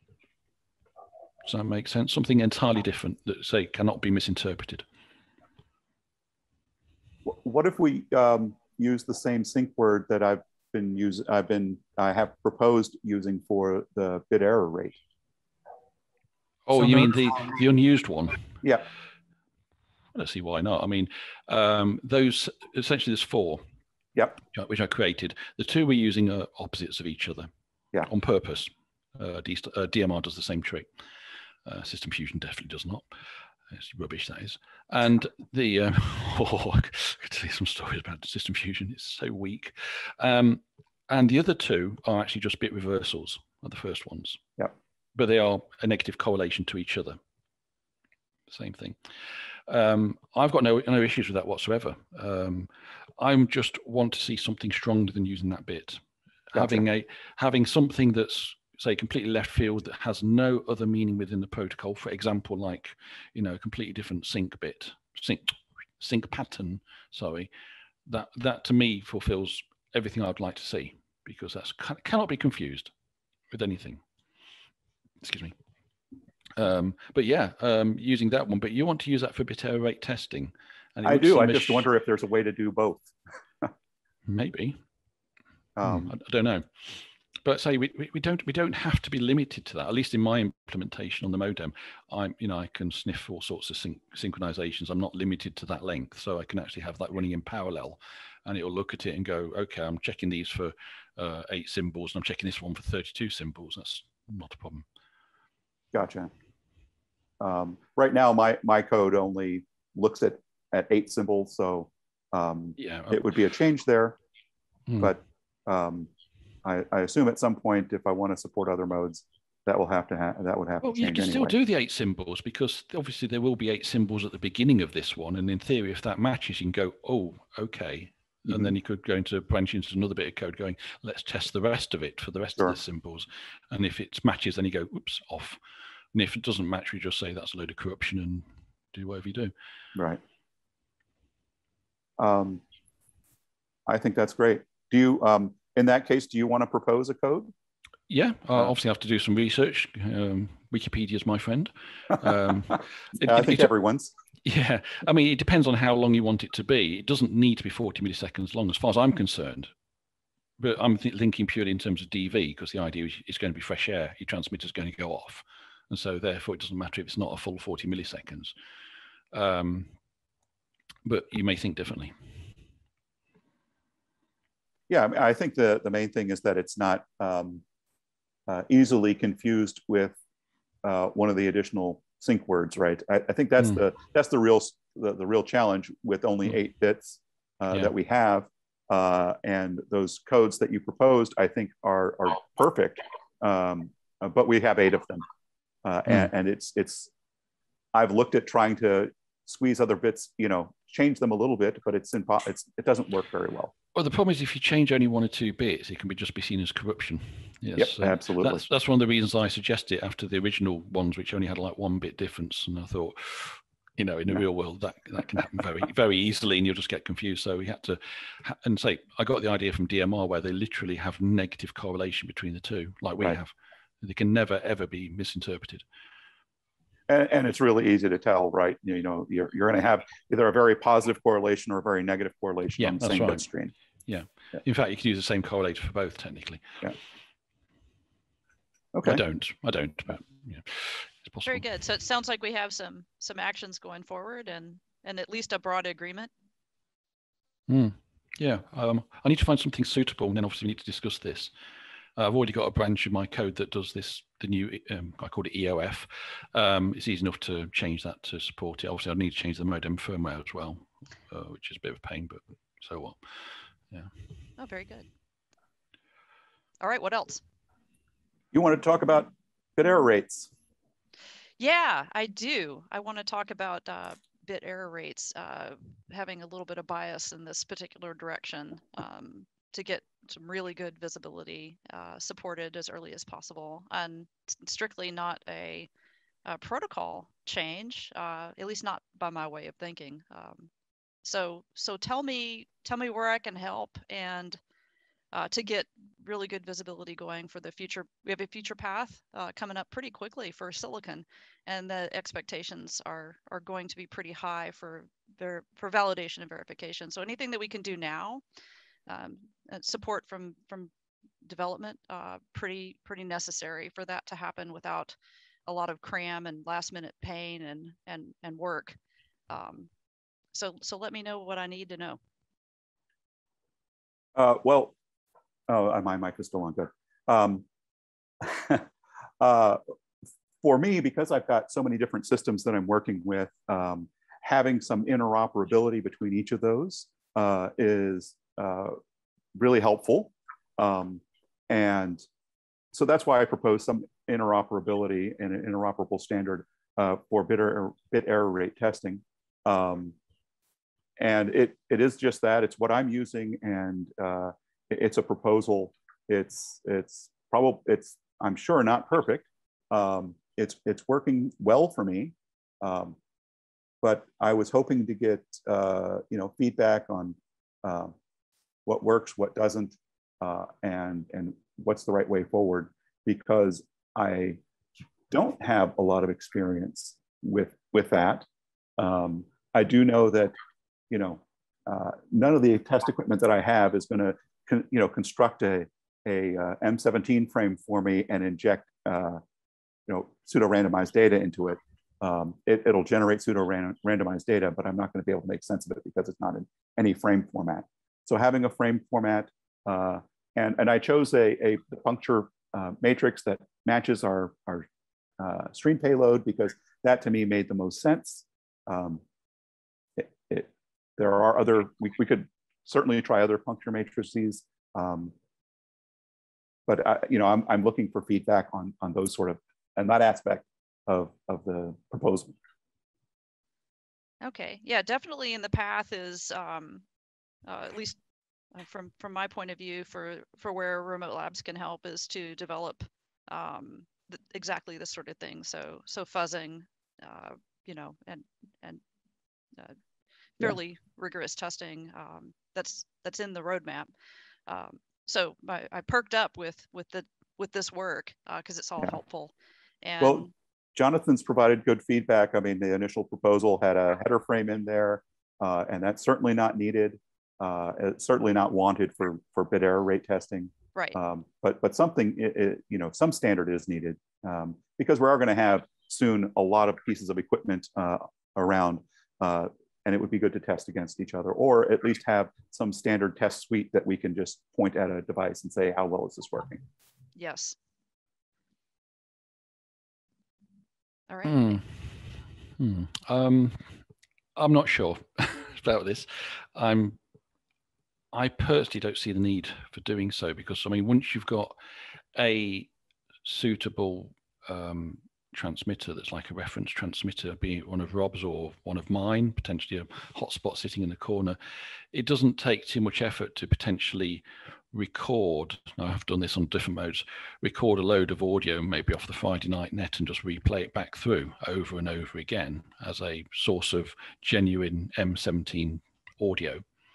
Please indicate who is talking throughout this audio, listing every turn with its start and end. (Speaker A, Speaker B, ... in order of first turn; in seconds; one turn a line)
Speaker A: 1.4-4.8
Speaker B: 7.2-15.0
Speaker A: 16.6-18.4
Speaker B: 16.8-17.1
Speaker A: 20.1-23.6
Speaker A: 24.5-27.5
Speaker A: 28.0-30.9
Speaker A: 31.6-33.1
Speaker A: 33.7-44.4
Speaker A: 45.1-47.2
Speaker A: 48.5-49.0
Speaker A: 49.7-67.5
Speaker B: 56.5-56.8
Speaker A: 68.0-72.9
Speaker A: 73.5-74.0
Speaker A: 75.2-75.5
Speaker A: 76.5-81.9
Speaker B: 81.0-83.7
Speaker A: 84.3-84.8
Speaker B: 85.8-86.1
Speaker A: 85.8-104.8
Speaker B: 105.9-106.3
Speaker B: 107.4-114.2
Speaker A: 112.8-113.3
Speaker A: 114.9-115.1
Speaker B: 115.0-116.1
Speaker B: 116.6-121.5
Speaker A: 120.8-135.6
Speaker B: 128.4-128.7
Speaker A: 136.1-139.5
Speaker B: 139.9-140.2
Speaker B: 142.2-142.6
Speaker B: 143.9-147.5
Speaker A: 148.1-153.7
Speaker B: 153.2-154.1
Speaker A: 154.4-159.7
Speaker A: 160.6-168.5
Speaker A: 169.3-169.9
Speaker A: 171.0-172.3
Speaker B: 174.9-177.6
Speaker B: 178.5-180.2
Speaker B: 180.8-195.2
Speaker B: 195.8-197.1
Speaker B: 197.9-203.7
Speaker A: 203.9-225.8
Speaker B: 207.8-208.6
Speaker B: 227.1-233.7
Speaker A: 232.8-233.4
Speaker A: 234.1-236.8
Speaker B: 238.9-239.2
Speaker A: 239.0-241.7
Speaker C: 241.4-246.3
Speaker A: 247.7-251.5
Speaker A: 252.2-264.1
Speaker C: 264.6-265.1
Speaker C: 266.8-267.4
Speaker B: 268.5-270.5
Speaker C: 271.6-285.9
Speaker C: 286.4-290.7
Speaker C: 291.2-294.6
Speaker C: 295.3-308.4
Speaker C: 309.1-310.9
Speaker C: 311.4-315.1
Speaker C: 315.7-319.0
Speaker C: 319.5-319.9
Speaker C: 320.5-322.2
Speaker B: 324.3-324.9
Speaker B: 325.7-327.6
Speaker B: 328.4-328.9
Speaker B: 329.4-329.8
Speaker B: 330.6-339.0
Speaker B: 339.5-342.2
Speaker B: 342.9-350.1
Speaker B: 351.2-363.2
Speaker B: 364.0-368.1
Speaker B: 368.9-374.6
Speaker B: 375.3-378.5
Speaker B: 379.0-380.6
Speaker B: 381.1-389.4
Speaker B: 390.1-404.9
Speaker B: 405.4-409.2
Speaker B: 410.2-415.3
Speaker B: 416.9-422.5
Speaker C: 424.4-427.0
Speaker C: 427.6-428.2
Speaker C: 428.7-439.0
Speaker C: 440.6-444.1
Speaker C: 444.7-450.5
Speaker B: 450.2-476.8
Speaker C: 477.4-477.8
Speaker C: 481.3-481.8
Speaker A: 481.4-484.0
Speaker A: 484.6-487.2
Speaker A: 488.3-491.8
Speaker A: 492.3-492.9
Speaker A: 493.4-501.6
Speaker A: 502.1-516.8